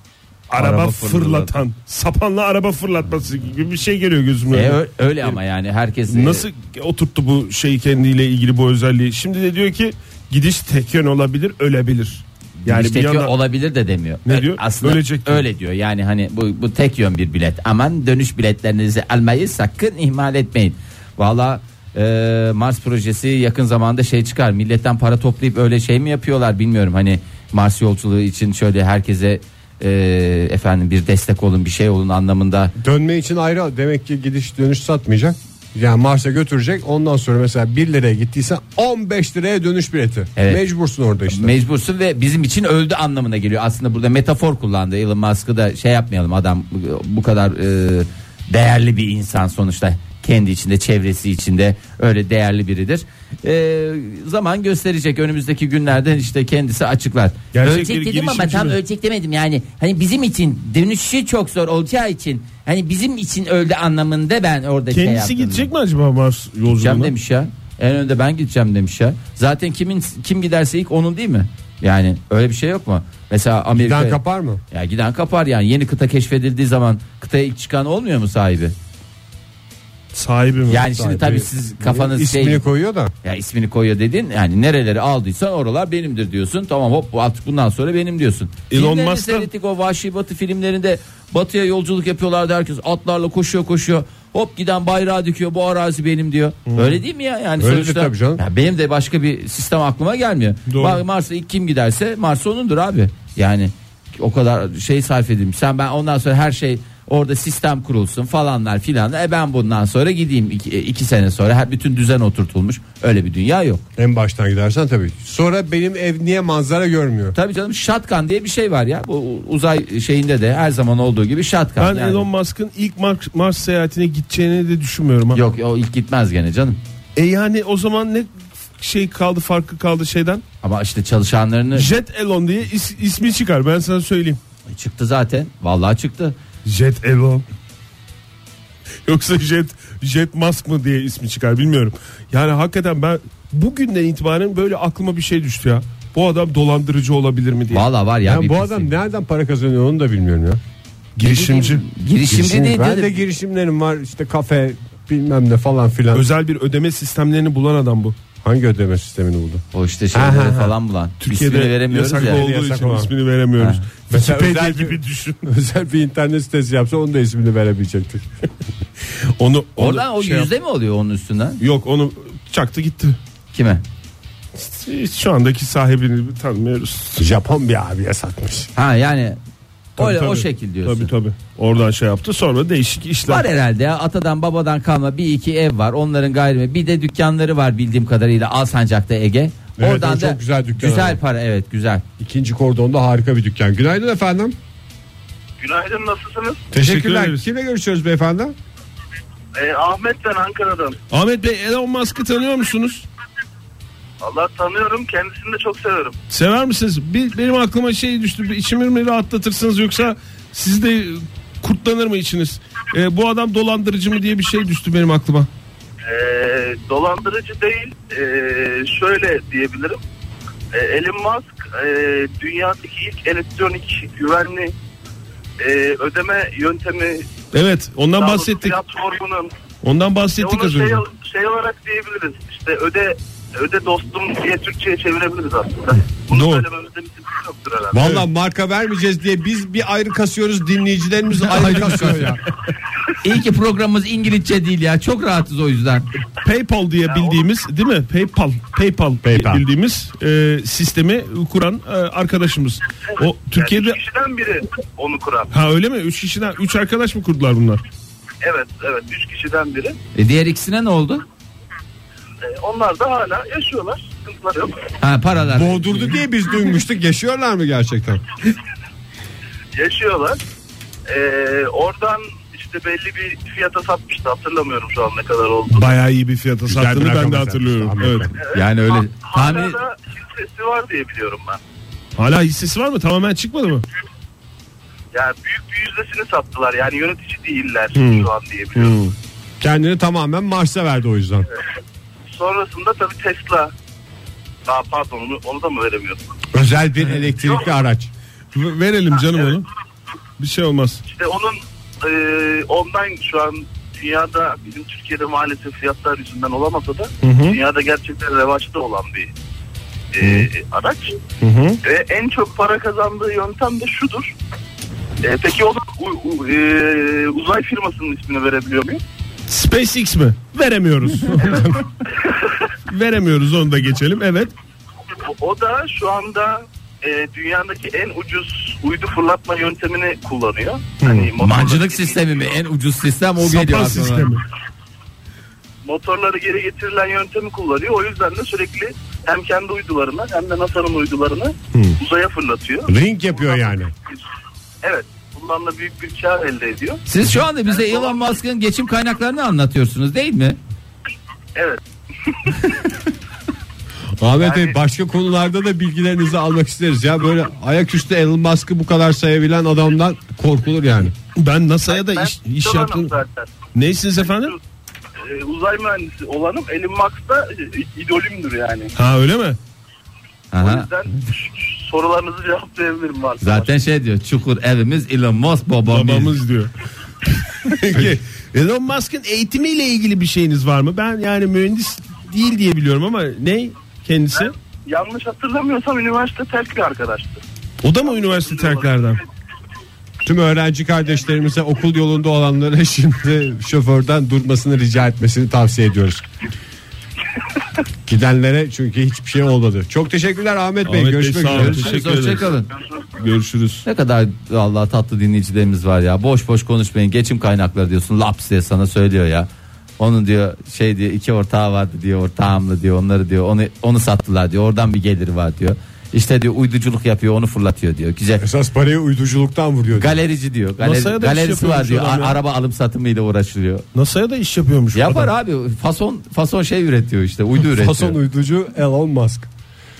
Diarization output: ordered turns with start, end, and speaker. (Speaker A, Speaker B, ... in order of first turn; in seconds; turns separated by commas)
Speaker A: 0.5-5.4, Speaker B: 0.5-1.6, Speaker B: 4.5-6.5, Speaker A: 6.1-13.3, Speaker B: 12.6-32.7, Speaker A: 14.2-15.4, Speaker C: 32.8-41.5, Speaker B: 40.4-40.6, Speaker B: 41.3-65.7, Speaker A: 57.5-58.8, Speaker A: 64.9-67.1, Speaker B: 66.8-78.7, Speaker C: 73.7-74.6, Speaker A: 80.1-80.8, Speaker B: 80.7-82.7, Speaker C: 80.8-83.1, Speaker B: 83.2-113.8, Speaker A: 88.7-89.5, Speaker A: 96.7-97.0, Speaker C: 97.6-98.4, Speaker A: 100.7-101.0, Speaker C: 114.0-117.3, Speaker B: 117.3-122.3, Speaker A: 121.8-125.4, Speaker B: 125.3-126.8, Speaker A: 127.2-130.4, Speaker B: 130.6-131.9, Speaker A: 131.7-134.4, Speaker B: 134.7-136.4, Speaker A: 136.6-137.4, Speaker A: 139.1-147.8, Speaker B: 147.7-148.9, Speaker C: 148.2-150.6, Speaker A: 151.2-151.8, Speaker B: 151.2-153.2, Speaker C: 152.2-156.3, Speaker A: 156.1-158.2, Speaker C: 158.4-160.7, Speaker B: 159.7-162.4, Speaker A: 161.2-165.4, Speaker C: 162.2-163.1, Speaker B: 163.6-163.8, Speaker C: 164.1-168.3, Speaker A: 169.4-170.5, Speaker B: 169.8-171.6, Speaker A: 171.6-173.2, Speaker B: 173.5-173.8, Speaker A: 174.6-177.2, Speaker C: 177.2-178.7, Speaker B: 178.8-179.4, Speaker B: 180.0-181.1, Speaker A: 180.0-183.5, Speaker B: 183.3-192.0, Speaker C: 189.8-191.2, Speaker C: 192.2-194.6, Speaker D: 195.6-196.6, Speaker C: 196.7-198.5, Speaker A: 196.8-197.4, Speaker D: 199.5-201.0, Speaker A: 201.1-203.1, Speaker D: 204.2-206.2, Speaker A: 206.3-215.5, Speaker D: 216.0-220.0, Speaker D: 220.7-224.7, Speaker D: 225.6-227.3, Speaker A: 227.5-228.8, Speaker D: 228.2-229.5, Speaker A: 229.8-231.0, Speaker D: 230.4-238.0, Speaker A: 236.3-236.6, Speaker C: 237.9-242.4, Speaker A: 238.0-238.2, Speaker A: 241.3-242.4, Speaker B: 243.2-246.1, Speaker A: 246.4-254.0, Speaker D: 247.1-247.5, Speaker C: 249.2-249.6, Speaker D: 253.1-255.5, Speaker A: 255.5-257.8, Speaker D: 258.4-260.0, Speaker B: 260.1-261.2, Speaker D: 262.4-264.9, Speaker B: 265.0-266.1, Speaker C: 265.5-268.2, Speaker D: 269.7-270.4, Speaker D: 271.1-275.9, Speaker A: 275.7-278.3, Speaker C: 276.6-278.3, Speaker D: 278.4-281.6, Speaker B: 278.5-279.8, Speaker A: 282.2-283.8, Speaker D: 285.1-288.9, Speaker A: 287.9-289.1, Speaker C: 289.6-291.5, Speaker D: 292.3-293.7, Speaker D: 294.7-296.2, Speaker C: 296.5-298.1, Speaker A: 298.5-299.6, Speaker A: 300.4-301.0, Speaker D: 301.0-309.3, Speaker A: 307.2-307.6, Speaker D: 310.1-311.2, Speaker A: 310.2-310.5, Speaker A: 311.4-311.8, Speaker D: 311.8-314.3, Speaker D: 315.2-319.0, Speaker A: 319.5-321.8, Speaker A: 322.9-324.5, Speaker D: 325.2-332.3, Speaker A: 331.0-331.3, Speaker B: 331.4-334.3, Speaker A: 333.4-334.4, Speaker D: 335.8-344.2, Speaker C: 342.9-343.9, Speaker D: 344.8-347.0, Speaker B: 347.1-350.6, Speaker D: 347.7-348.3, Speaker D: 351.6-352.8, Speaker C: 354.2-361.1, Speaker D: 354.4-354.8, Speaker A: 361.4-363.1, Speaker D: 361.9-363.5, Speaker A: 363.7-364.5, Speaker D: 364.2-364.6, Speaker D: 365.2-368.9, Speaker A: 368.9-369.6, Speaker B: 370.5-370.9, Speaker D: 370.6-373.7, Speaker B: 373.4-376.4, Speaker A: 375.9-376.7, Speaker A: 377.6-384.5, Speaker D: 384.3-387.4, Speaker A: 387.8-389.2, Speaker D: 388.1-388.9, Speaker C: 390.2-396.2, Speaker C: 398.1-401.9, Speaker A: 400.9-402.5, Speaker B: 401.5-402.7, Speaker A: 403.1-403.8, Speaker B: 403.8-409.5, Speaker B: 410.0-418.4, Speaker C: 418.4-420.2, Speaker B: 420.0-423.8, Speaker A: 420.8-422.4, Speaker A: 423.9-425.3, Speaker B: 424.9-428.2, Speaker C: 427.6-429.5